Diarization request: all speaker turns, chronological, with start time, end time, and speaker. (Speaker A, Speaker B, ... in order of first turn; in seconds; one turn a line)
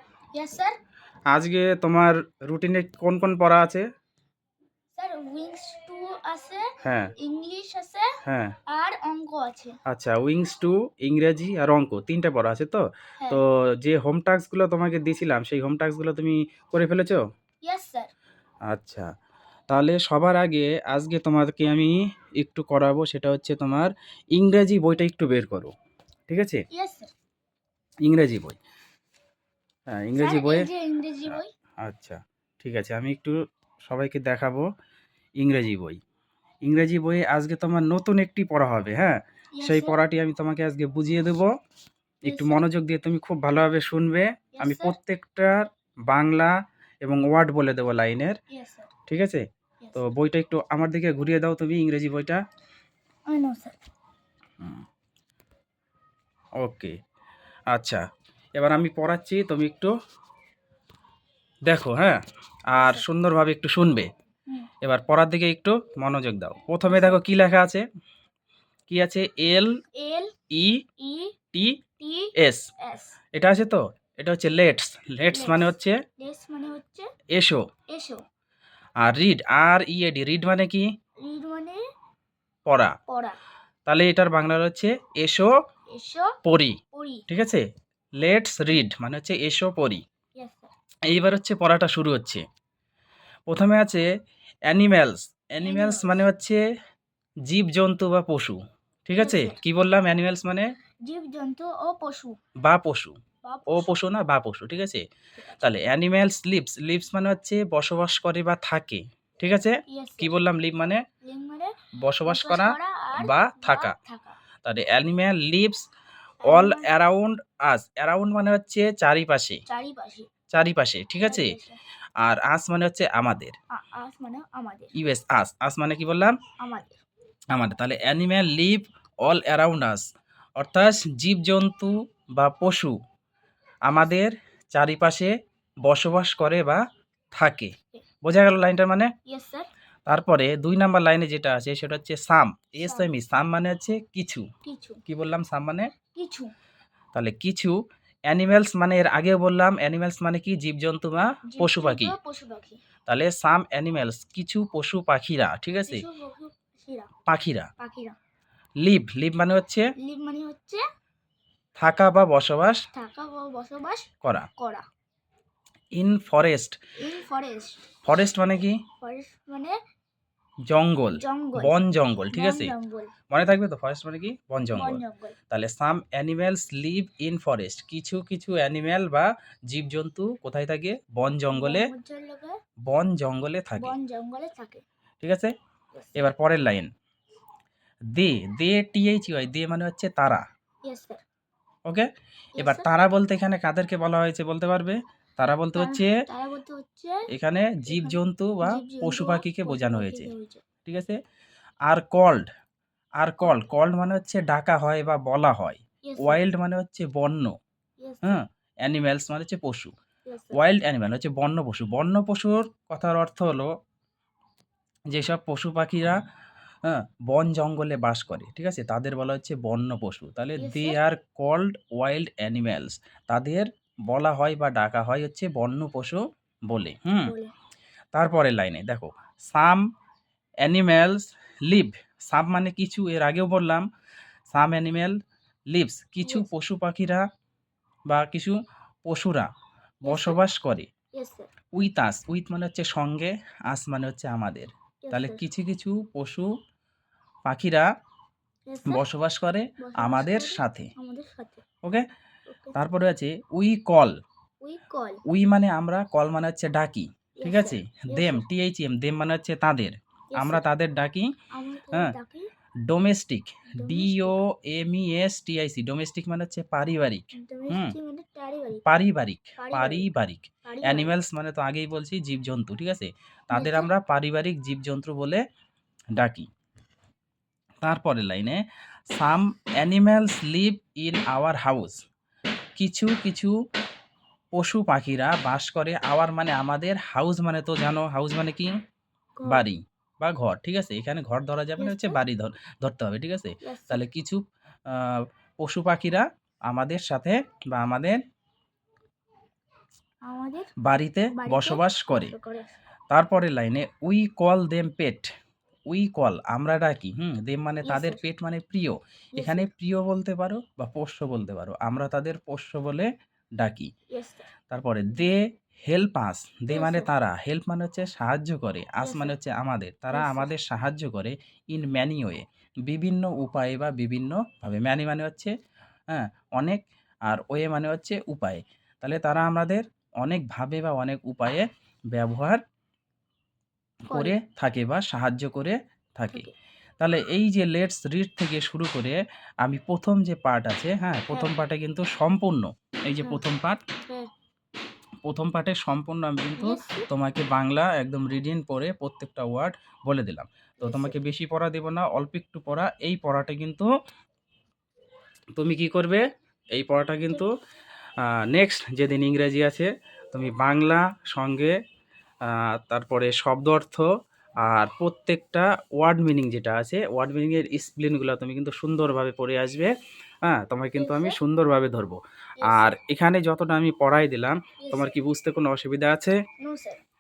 Speaker A: 0.3-0.8
Speaker B: 1.3-3.8
Speaker A: 5.0-8.1
Speaker B: 6.8-7.1
Speaker B: 8.2-8.5
Speaker A: 8.7-9.8
Speaker B: 9.9-17.2
Speaker A: 17.6-18.1
Speaker B: 18.6-19.1
Speaker B: 19.7-25.7
Speaker B: 26.3-26.6
Speaker A: 26.7-27.1
Speaker B: 28.0-28.6
Speaker B: 29.9-30.7
Speaker A: 30.1-31.5
Speaker B: 31.3-33.4
Speaker B: 33.9-34.6
Speaker B: 35.4-36.0
Speaker B: 36.6-41.5
Speaker A: 39.5-40.0
Speaker A: 42.2-42.7
Speaker B: 42.2-46.5
Speaker A: 44.5-44.9
Speaker B: 47.0-48.4
Speaker A: 48.5-48.9
Speaker B: 49.1-49.4
Speaker B: 50.0-52.4
Speaker A: 53.3-53.8
Speaker B: 56.6-56.9
Speaker B: 57.7-58.0
Speaker B: 58.5-59.9
Speaker B: 61.7-62.2
Speaker B: 62.7-64.1
Speaker A: 62.7-63.0
Speaker B: 64.8-67.8
Speaker A: 66.9-67.2
Speaker B: 68.9-69.7
Speaker A: 70.0-70.3
Speaker B: 70.5-70.8
Speaker A: 71.0-71.3
Speaker B: 71.5-71.8
Speaker A: 72.0-73.2
Speaker B: 72.3-72.7
Speaker B: 73.3-76.0
Speaker A: 75.3-77.1
Speaker B: 77.3-77.6
Speaker A: 77.9-78.2
Speaker B: 79.0-80.8
Speaker A: 81.2-81.8
Speaker B: 82.7-82.9
Speaker A: 83.1-83.4
Speaker B: 83.9-85.5
Speaker A: 85.9-86.3
Speaker B: 86.4-86.8
Speaker A: 86.9-87.2
Speaker B: 87.3-87.6
Speaker B: 88.2-90.0
Speaker A: 90.4-90.7
Speaker B: 91.1-92.4
Speaker B: 93.5-94.0
Speaker B: 94.7-96.6
Speaker A: 95.6-96.3
Speaker B: 97.5-100.7
Speaker A: 99.1-99.6
Speaker A: 101.1-102.3
Speaker B: 102.6-103.2
Speaker A: 103.4-103.9
Speaker B: 103.7-105.0
Speaker A: 105.4-105.7
Speaker B: 105.6-111.0
Speaker A: 109.9-110.3
Speaker A: 111.2-111.7
Speaker B: 112.0-113.9
Speaker A: 112.2-114.4
Speaker B: 114.6-115.8
Speaker A: 116.4-116.9
Speaker B: 116.5-119.6
Speaker A: 119.7-120.3
Speaker B: 120.5-121.5
Speaker A: 121.2-121.8
Speaker B: 122.2-123.5
Speaker A: 123.7-124.9
Speaker B: 124.9-126.3
Speaker A: 126.6-127.0
Speaker B: 127.5-130.0
Speaker B: 130.6-132.9
Speaker B: 133.9-135.3
Speaker B: 135.9-136.8
Speaker B: 137.3-137.7
Speaker B: 138.2-139.1
Speaker A: 139.3-139.7
Speaker B: 140.1-144.4
Speaker A: 142.8-143.1
Speaker A: 144.6-145.0
Speaker B: 145.1-145.9
Speaker A: 146.1-146.5
Speaker B: 147.1-147.8
Speaker B: 148.3-152.1
Speaker A: 151.5-152.8
Speaker B: 153.1-156.0
Speaker A: 155.9-157.1
Speaker B: 157.3-157.7
Speaker A: 157.8-158.2
Speaker B: 158.8-159.9
Speaker A: 160.0-160.8
Speaker B: 161.8-162.8
Speaker A: 162.9-164.8
Speaker B: 164.2-164.5
Speaker B: 165.9-166.8
Speaker A: 167.0-167.9
Speaker B: 168.0-168.8
Speaker A: 169.0-169.8
Speaker B: 170.7-172.7
Speaker A: 171.1-171.7
Speaker A: 172.3-173.1
Speaker B: 173.3-181.9
Speaker A: 174.7-175.3
Speaker A: 181.5-182.6
Speaker B: 182.9-183.9
Speaker A: 183.8-184.8
Speaker B: 185.2-185.5
Speaker B: 186.2-186.9
Speaker B: 188.1-190.4
Speaker A: 190.8-191.2
Speaker A: 192.6-192.9
Speaker B: 192.6-196.2
Speaker A: 195.7-197.2
Speaker B: 197.3-200.3
Speaker A: 197.8-200.6
Speaker B: 200.8-201.2
Speaker B: 201.9-202.4
Speaker B: 203.2-207.5
Speaker A: 206.0-206.4
Speaker A: 208.0-208.4
Speaker B: 208.2-209.9
Speaker A: 210.3-210.6
Speaker B: 210.5-213.7
Speaker B: 215.1-216.2
Speaker B: 216.8-227.3
Speaker A: 220.6-221.0
Speaker A: 227.2-227.5
Speaker B: 228.1-229.8
Speaker B: 230.6-233.8
Speaker B: 234.5-235.2
Speaker B: 235.7-237.2
Speaker A: 236.2-236.5
Speaker B: 238.1-239.5
Speaker B: 240.0-240.9
Speaker A: 240.1-240.4
Speaker A: 241.1-241.5
Speaker B: 241.7-246.5
Speaker A: 245.0-245.4
Speaker B: 247.4-247.9
Speaker A: 248.7-249.1
Speaker B: 248.8-250.9
Speaker A: 249.8-251.6
Speaker A: 252.5-252.8
Speaker B: 252.7-254.1
Speaker A: 254.6-255.2
Speaker B: 255.3-261.3
Speaker A: 257.4-258.4
Speaker A: 260.3-260.6
Speaker A: 261.5-262.5
Speaker B: 262.9-267.9
Speaker A: 263.7-264.4
Speaker A: 267.3-268.8
Speaker B: 268.8-275.4
Speaker A: 269.6-270.1
Speaker A: 270.6-271.1
Speaker A: 273.5-273.9
Speaker B: 276.1-276.5
Speaker B: 277.8-278.6
Speaker B: 279.1-282.0
Speaker B: 282.8-283.5
Speaker B: 284.6-288.7
Speaker A: 289.4-289.6
Speaker B: 289.5-298.2
Speaker A: 291.8-292.2
Speaker A: 293.6-294.0
Speaker A: 300.2-300.8
Speaker B: 300.8-302.3
Speaker A: 301.3-302.8
Speaker B: 303.1-305.3
Speaker B: 305.9-313.9
Speaker A: 307.8-308.2
Speaker A: 309.4-309.7
Speaker A: 314.1-314.5
Speaker B: 314.7-325.5
Speaker A: 316.7-317.1
Speaker A: 319.0-319.3
Speaker A: 320.1-320.5
Speaker B: 326.1-332.6
Speaker A: 334.1-334.4
Speaker B: 334.1-336.5
Speaker B: 337.0-343.8
Speaker B: 345.2-353.9
Speaker A: 346.6-347.1
Speaker A: 350.8-351.2
Speaker B: 355.6-356.2
Speaker B: 356.8-357.5
Speaker B: 358.2-361.7
Speaker B: 362.5-364.0
Speaker B: 364.6-369.9
Speaker B: 370.4-376.4
Speaker A: 370.9-371.4
Speaker A: 372.6-372.9
Speaker A: 374.8-375.2
Speaker A: 376.6-377.0